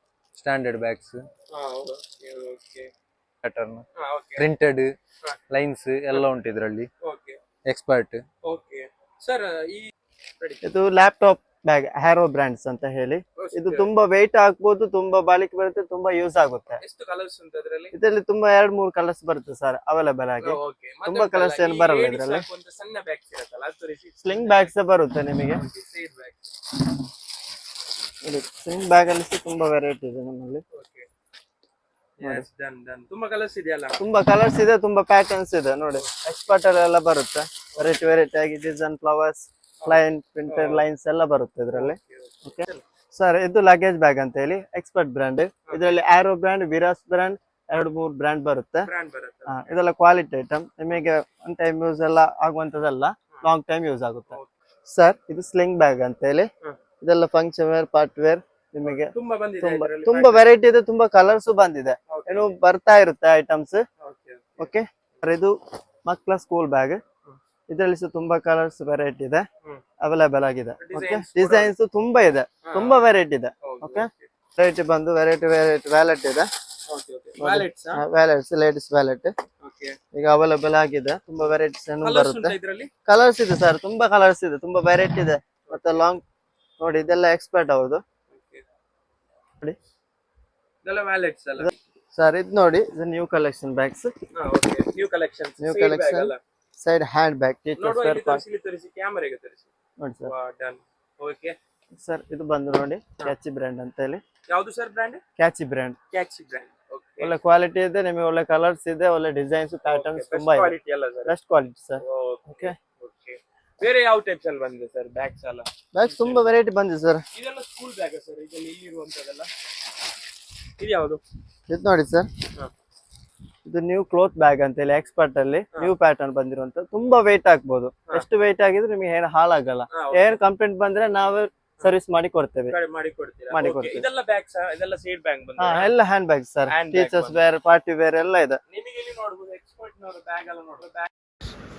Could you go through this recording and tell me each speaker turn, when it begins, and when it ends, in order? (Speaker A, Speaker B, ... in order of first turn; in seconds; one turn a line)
Speaker A: 0.3-1.2
Speaker B: 1.5-2.9
Speaker A: 3.4-3.8
Speaker B: 3.9-4.5
Speaker A: 4.4-4.9
Speaker A: 5.5-6.9
Speaker B: 7.0-7.4
Speaker A: 7.7-8.2
Speaker B: 8.4-10.7
Speaker C: 10.6-16.8
Speaker B: 13.3-13.9
Speaker B: 16.8-17.9
Speaker C: 17.9-22.4
Speaker B: 20.4-24.7
Speaker C: 24.2-25.6
Speaker B: 25.4-26.6
Speaker C: 28.2-30.6
Speaker B: 30.7-31.1
Speaker B: 32.2-34.0
Speaker C: 34.0-48.9
Speaker B: 39.8-40.8
Speaker B: 41.7-42.8
Speaker B: 45.6-46.0
Speaker B: 48.8-49.6
Speaker C: 49.5-56.5
Speaker C: 57.0-63.8
Speaker B: 58.8-60.6
Speaker B: 62.1-62.5
Speaker B: 64.0-64.7
Speaker C: 64.6-67.0
Speaker C: 67.7-69.5
Speaker C: 70.0-76.5
Speaker B: 70.8-71.7
Speaker B: 72.6-73.1
Speaker B: 73.6-74.3
Speaker B: 76.8-78.0
Speaker C: 77.4-79.3
Speaker B: 79.6-80.0
Speaker C: 80.1-82.5
Speaker B: 81.4-82.9
Speaker C: 83.1-86.2
Speaker B: 85.6-86.0
Speaker C: 86.8-88.0
Speaker B: 88.3-88.6
Speaker B: 90.8-91.7
Speaker C: 91.6-94.1
Speaker B: 94.3-96.4
Speaker C: 95.6-98.4
Speaker B: 97.8-99.7
Speaker C: 100.0-100.3
Speaker B: 100.2-101.5
Speaker C: 102.0-104.2
Speaker B: 104.5-105.2
Speaker C: 105.4-106.0
Speaker B: 106.1-107.4
Speaker C: 107.2-110.7
Speaker B: 109.8-111.3
Speaker C: 111.2-112.8
Speaker B: 112.0-116.5
Speaker C: 115.9-117.2
Speaker B: 117.3-119.5
Speaker B: 120.8-121.2
Speaker C: 121.7-122.3
Speaker C: 123.7-132.8
Speaker B: 129.9-130.4
Speaker B: 132.7-135.9
Speaker C: 133.5-134.0
Speaker C: 135.6-138.6
Speaker B: 136.7-137.4
Speaker B: 138.7-141.1